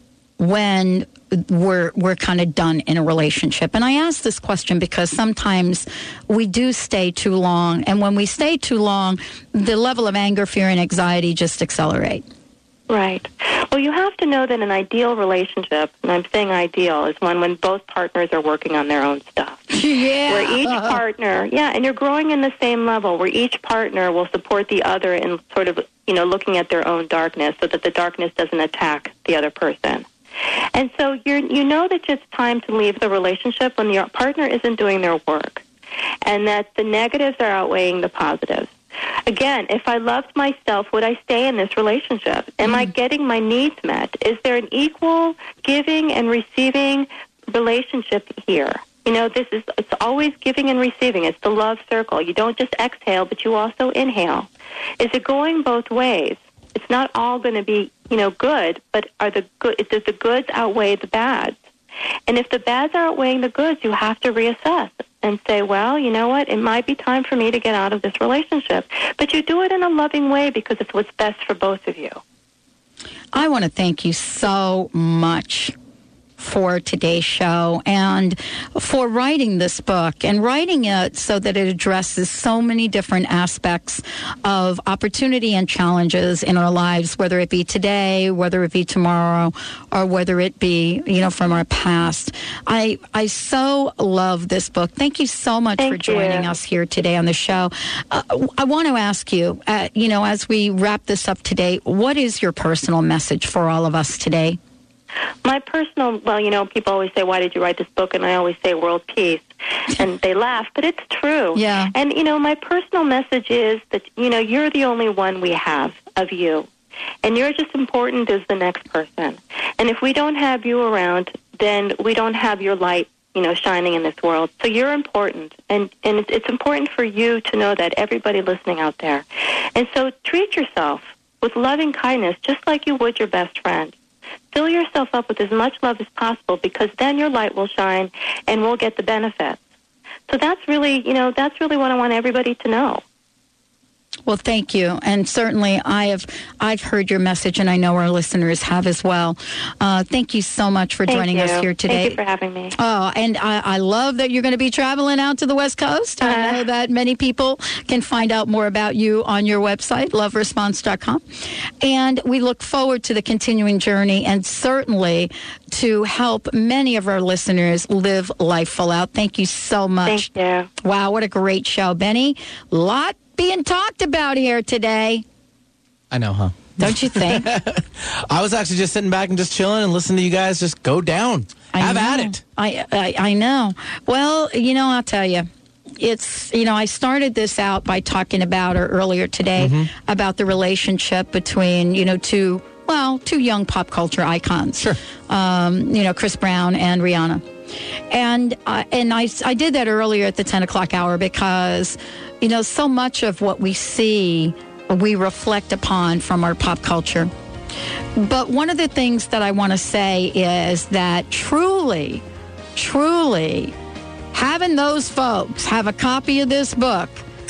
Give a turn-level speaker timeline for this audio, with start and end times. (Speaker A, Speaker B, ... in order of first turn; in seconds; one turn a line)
Speaker A: 0.4-12.2
Speaker B: 12.9-19.7
Speaker A: 19.7-21.0
Speaker B: 20.3-30.1
Speaker B: 30.7-35.6
Speaker B: 36.2-38.7
Speaker B: 39.2-54.5
Speaker A: 42.6-42.9
Speaker B: 55.0-61.6
Speaker B: 62.3-72.2
Speaker A: 73.3-75.7
Speaker A: 76.4-104.6
Speaker B: 95.8-96.5
Speaker B: 105.4-116.7
Speaker A: 111.5-111.9
Speaker B: 117.2-133.9
Speaker B: 134.5-139.6
Speaker B: 140.3-143.0
Speaker A: 144.2-152.2
Speaker B: 151.1-152.7
Speaker A: 152.7-161.2
Speaker B: 156.2-156.6
Speaker A: 161.8-175.2
Speaker B: 170.1-170.7
Speaker C: 176.1-182.4
Speaker A: 176.8-177.5
Speaker A: 181.7-197.5
Speaker C: 189.6-189.9
Speaker A: 198.1-207.3
Speaker A: 208.2-212.2
Speaker A: 212.7-213.7
Speaker A: 214.3-217.2